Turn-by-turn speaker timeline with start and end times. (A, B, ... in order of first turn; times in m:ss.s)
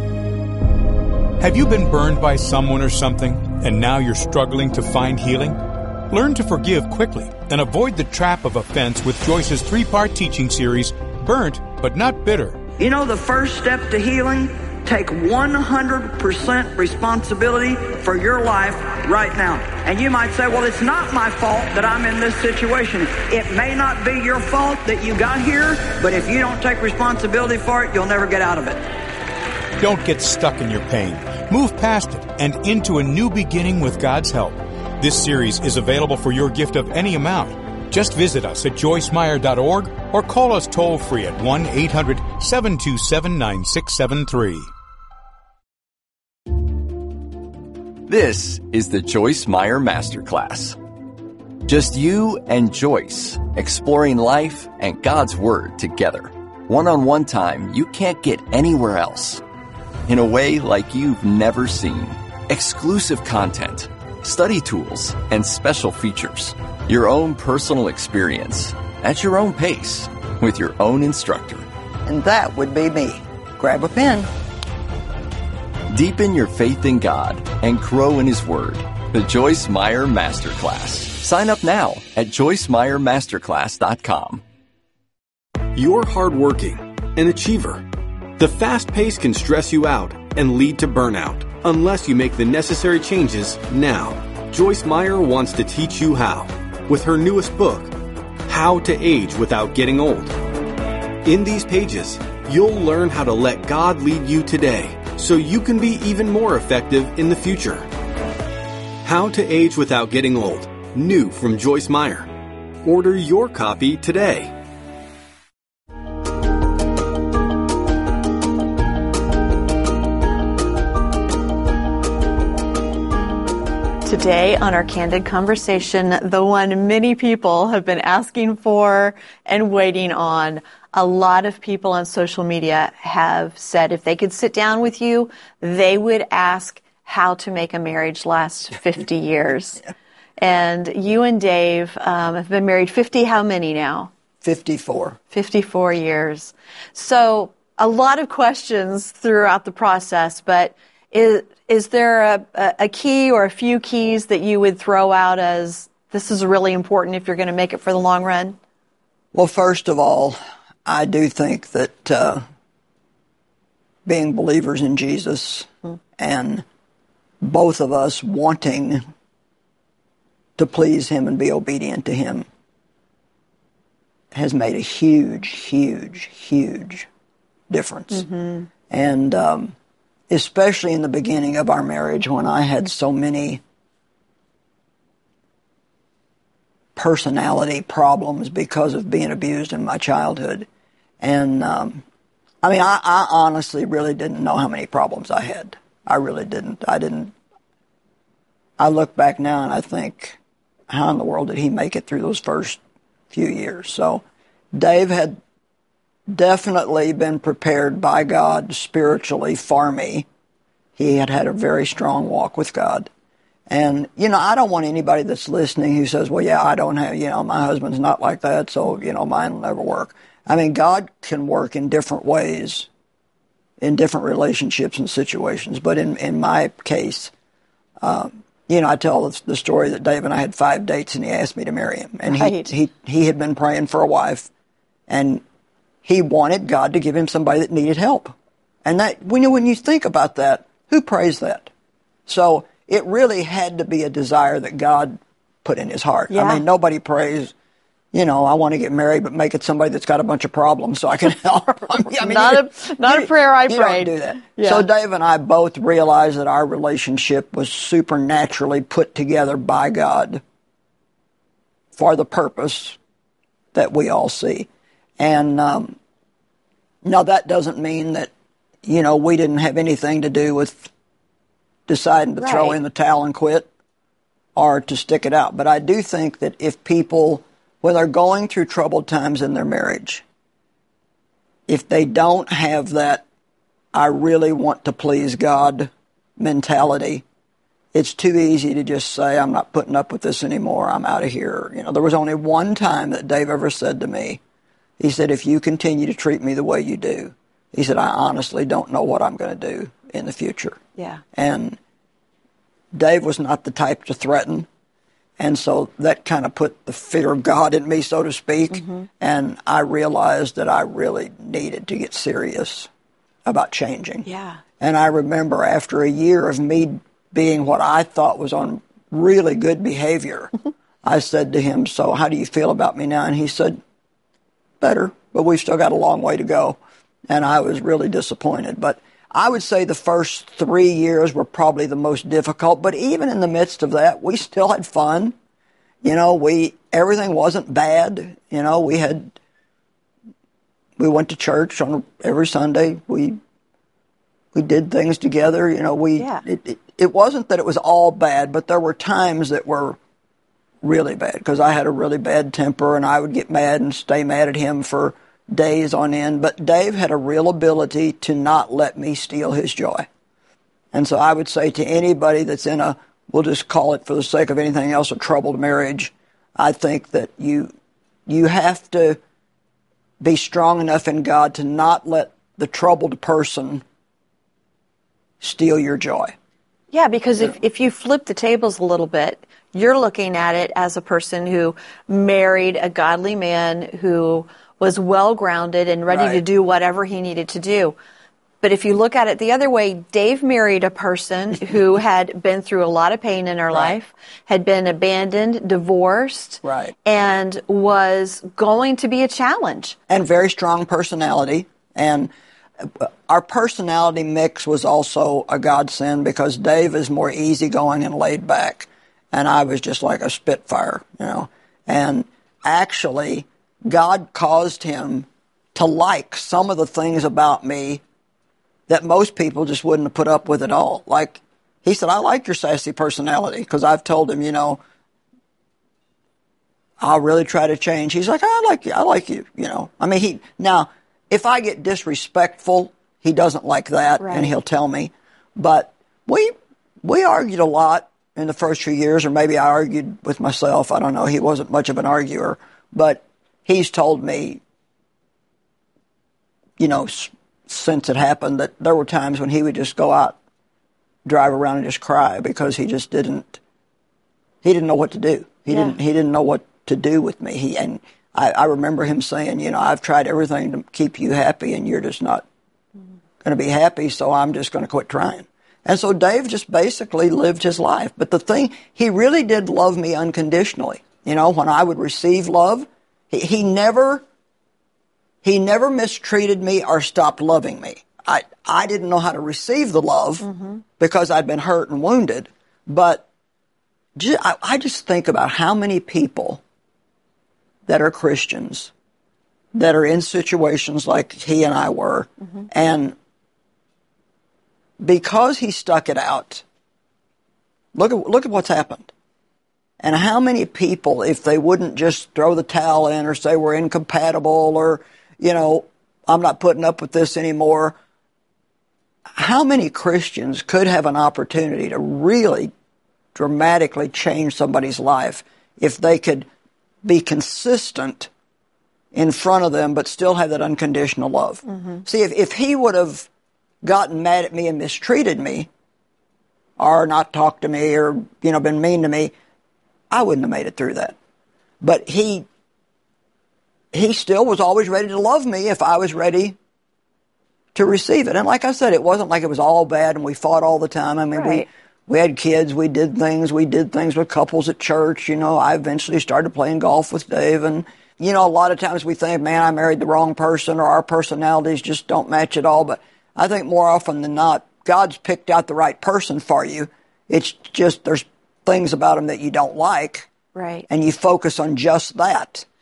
0:01.4-0:05.6 A
0:06.1-0:12.6 A
0:12.8-0:28.8 B
0:29.8-0:44.7 A
0:48.1-0:50.8 C
0:51.6-0:59.4 C
1:00.1-1:11.6 C
1:12.0-1:14.3 B
1:15.9-1:24.4 C
1:25.7-1:27.8 D
1:28.4-1:37.9 D
1:38.5-1:40.4 D
1:41.2-1:47.9 D
1:49.0-1:52.3 D
1:52.8-1:54.5 D
2:04.0-2:19.8 E
2:20.4-2:24.1 E
2:24.4-2:25.2 B
2:25.3-2:38.6 E
2:39.3-2:42.4 B
2:44.0-2:46.6 B
2:47.4-2:49.0 B
2:50.6-2:52.4 B
2:54.3-2:57.1 B
2:57.7-2:58.3 B
2:58.1-2:58.7 E
2:58.9-2:59.7 B
3:00.3-3:03.6 B
3:07.0-3:10.7 B
3:11.2-3:12.0 B
3:12.6-3:17.3 B
3:18.8-3:20.4 B
3:20.9-3:22.8 B
3:23.3-3:25.4 B
3:26.3-3:30.3 B
3:31.0-3:33.1 B
3:33.7-3:42.9 B
3:43.8-3:47.3 B
3:48.0-3:54.5 B
3:52.2-3:52.7 E
3:55.1-3:55.4 B
3:56.0-4:01.7 B
4:02.3-4:07.5 B
4:06.3-4:06.6 E
4:08.1-4:20.4 B
4:12.1-4:14.8 E
4:22.0-4:23.0 B
4:23.7-4:26.0 B
4:27.0-4:28.3 B
4:28.8-4:30.9 B
4:31.9-4:33.7 B
4:32.4-4:32.8 E
4:34.6-4:40.2 B
4:41.7-4:43.2 B
4:43.9-4:47.2 B
4:47.9-4:54.4 B
4:55.0-5:00.8 B
5:01.0-5:01.2 E
5:01.3-5:01.8 B
5:02.9-5:04.7 B
5:05.4-5:12.9 B
5:08.7-5:09.1 E
5:13.4-5:14.3 B
5:14.2-5:14.6 E
5:14.8-5:20.5 B
5:21.0-5:23.8 B
5:24.8-5:26.8 B
5:27.3-5:35.3 B
5:36.0-5:39.3 B
5:41.0-5:43.4 B
5:44.5-5:50.0 B
5:46.2-5:46.4 E
5:50.8-6:00.1 B
6:00.9-6:07.7 B
6:08.3-6:09.2 B
6:10.2-6:13.8 B
6:15.4-6:16.3 B
6:16.9-6:28.0 E
6:26.1-6:26.4 B
6:28.6-6:40.0 E
6:36.6-6:36.9 B
6:40.1-6:58.0 B
6:58.9-7:04.8 B
7:07.0-7:24.6 B
7:14.2-7:14.5 E
7:26.8-7:30.4 B
7:31.2-7:33.6 B
7:34.6-7:42.4 B
7:35.7-7:36.0 E
7:43.4-7:54.2 B
7:55.4-8:03.2 B
8:00.4-8:00.8 E
8:04.2-8:06.6 B
8:07.8-8:08.9 B
8:09.7-8:13.2 B
8:15.0-8:16.6 B
8:17.9-8:19.1 B
8:20.0-8:28.0 B
8:29.4-8:32.7 B
8:33.3-8:36.5 B
8:37.0-8:38.3 B
8:39.1-8:43.3 B
8:41.8-8:42.0 E
8:43.8-8:45.7 B
8:46.8-8:49.3 B
8:50.1-8:51.2 B
8:51.8-8:52.5 B
8:53.9-8:56.6 B
8:57.7-9:20.3 B
9:01.3-9:01.6 E
9:20.5-9:20.8 E
9:20.9-9:22.6 B